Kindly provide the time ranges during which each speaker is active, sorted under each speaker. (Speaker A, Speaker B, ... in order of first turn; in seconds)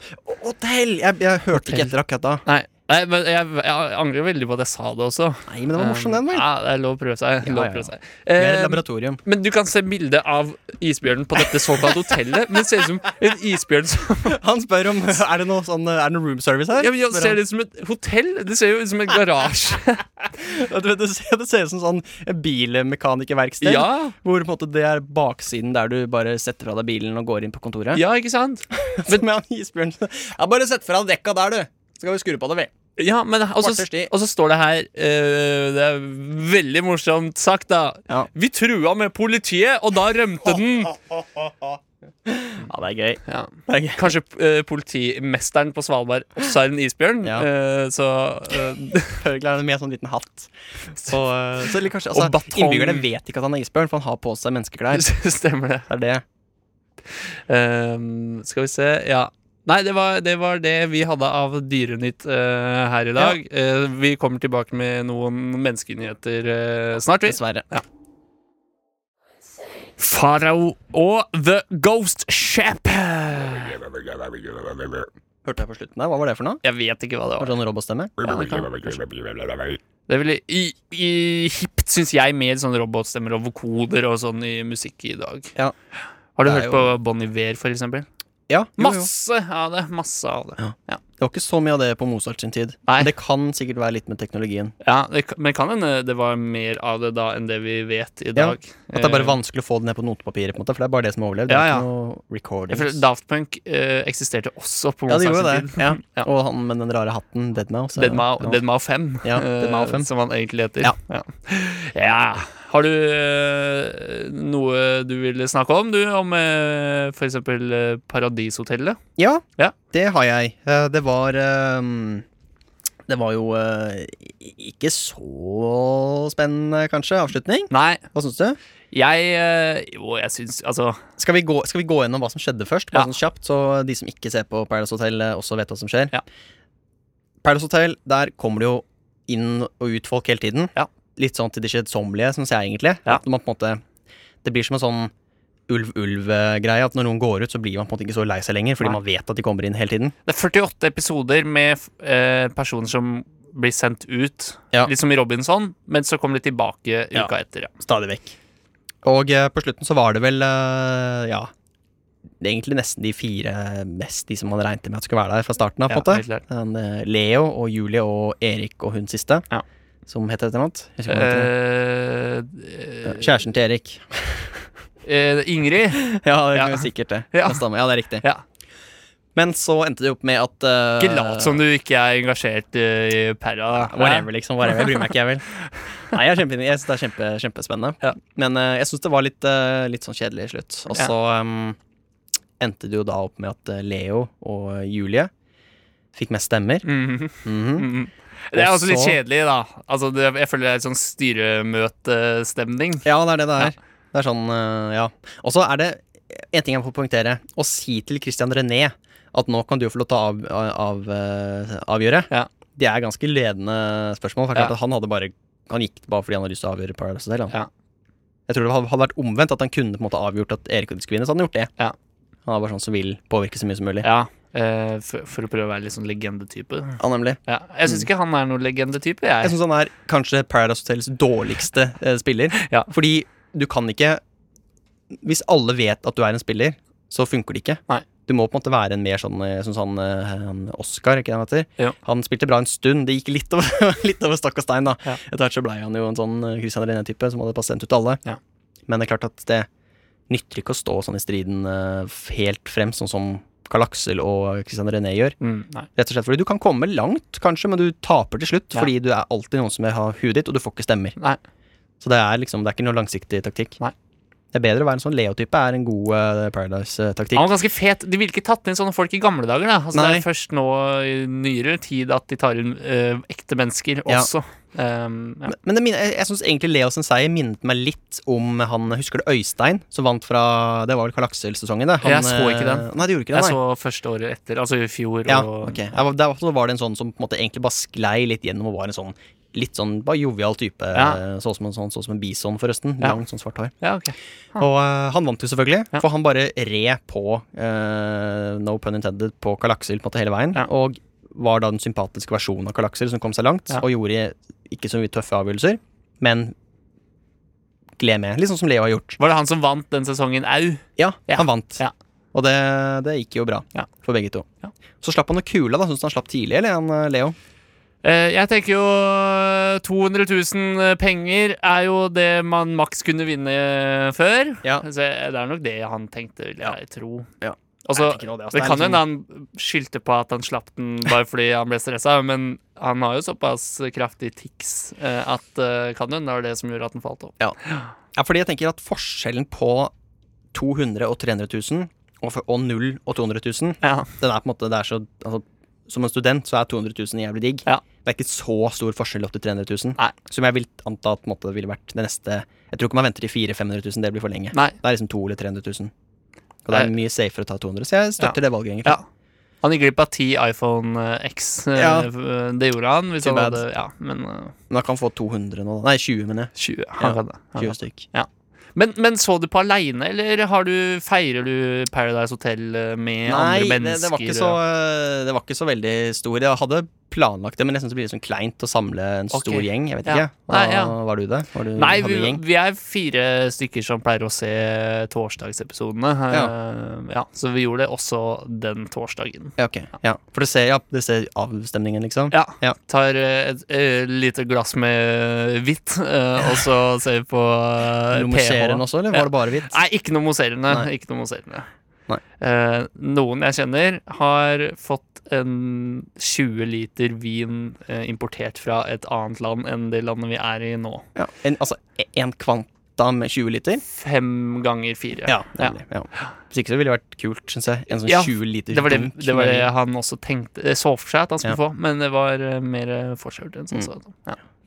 Speaker A: 0.2-2.4, 5.5-6.5, 7.4-9.2, 14.3-17.4, 20.4-28.0, 28.8-32.7, 33.6-34.1, 42.3-44.1, 49.2-55.1, 55.9-56.2, 67.2-67.7, 75.5-76.6, 77.4-78.7, 86.4-86.9, 88.5-89.1, 90.6-94.8, 98.3-103.0, 105.1-108.6, 109.2-110.1, 119.2-122.2, 123.1-128.6, 131.2-136.2, 137.4-143.8, 144.4-145.1, 145.7-150.2, 157.1-158.4, 159.0-161.5, 162.4-169.5, 170.1-171.5, 173.1-174.1, 176.1-178.2, 179.3-181.6, 183.8-185.5, 186.1-191.8, 192.6-195.3, 196.1-196.9, 197.4-197.9, 198.5-199.2, 203.1-217.6, 218.5-221.7, 222.5-224.1, 227.0-228.1, 229.4-234.2, 235.1-248.2, 248.9-249.7, 250.3-255.4, 256.0-261.1, 262.0-263.8, 264.5-267.5, 269.9-270.3, 275.5-283.6, 285.3-293.7, 294.6-306.5, 308.0-309.2, 311.0-314.5, 315.0-317.4, 327.4-329.0, 338.1-339.9, 340.5-355.9, 356.6-359.0, 361.7-362.1, 363.2-363.6, 364.7-368.1, 373.2-382.4, 389.6-392.8, 398.1-399.8, 411.2-413.8, 415.3-419.7
Speaker B: 1.5-1.9, 2.5-14.4, 16.8-20.1, 23.6-24.1, 27.9-29.2, 33.0-41.0, 43.3-49.2, 52.1-53.0, 54.9-55.9, 57.5-67.8, 70.0-73.8, 76.6-77.5, 78.2-79.0, 80.1-85.5, 86.4-88.1, 88.8-91.0, 94.8-99.4, 101.5-101.8, 102.7-106.3, 108.0-119.0, 127.7-128.0, 128.9-131.0, 150.3-157.7, 165.9-166.4, 171.1-173.3, 175.0-177.6, 181.0-184.9, 196.9-203.1, 224.0-229.6, 232.6-232.9, 255.4-255.9, 267.3-275.5, 282.0-285.9, 290.9-291.2, 293.8-294.6, 309.2-311.9, 318.0-327.3, 327.9-337.9, 343.8-344.1, 358.2-359.1, 359.6-364.5, 366.6-374.6, 379.3-380.9, 381.8-389.5, 392.3-401.7, 402.4-411.1, 413.9-415.8, 418.1-424.4